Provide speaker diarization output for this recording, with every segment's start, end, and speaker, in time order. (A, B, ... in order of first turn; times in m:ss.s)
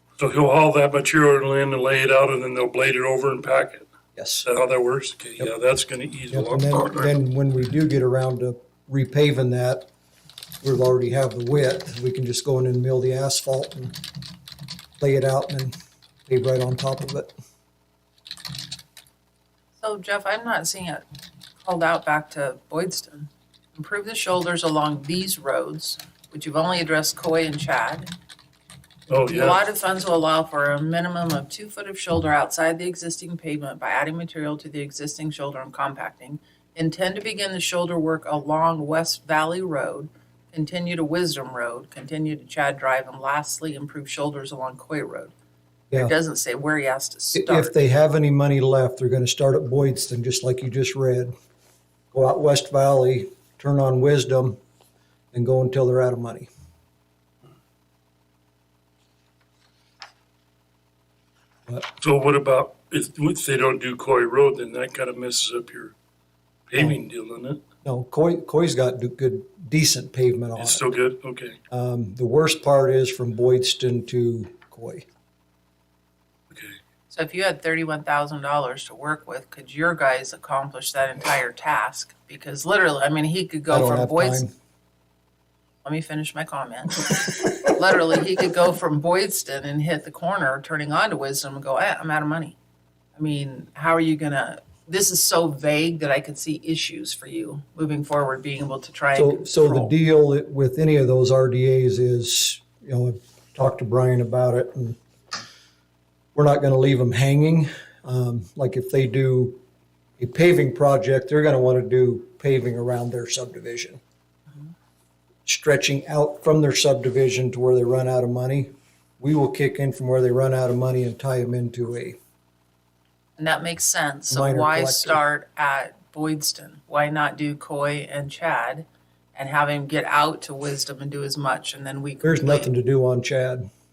0:00.2-0:03.9 A
0:04.2-0:04.5 B
0:04.4-0:07.1 A
0:06.3-0:09.9 B
0:10.6-0:14.0 B
0:15.0-0:15.7 B
0:16.3-0:17.3 B
0:19.8-0:21.0 C
0:21.6-0:28.1 C
0:29.1-0:29.6 A
0:29.2-0:45.3 C
0:45.9-0:47.8 C
0:47.3-0:51.3 B
0:52.1-0:54.6 B
0:55.3-0:56.5 B
1:02.0-1:05.9 A
1:06.7-1:07.6 A
1:07.8-1:10.9 B
1:10.6-1:11.6 A
1:11.7-1:15.0 B
1:16.5-1:16.8 A
1:17.1-1:24.4 C
1:23.7-1:24.5 B
1:25.8-1:32.6 C
1:33.1-1:39.9 C
1:39.1-1:45.0 B
1:46.3-1:49.6 B
1:50.2-1:54.0 B
1:55.4-2:02.2 B
2:03.4-2:12.7 C
2:04.3-2:05.2 B
2:12.2-2:13.6 B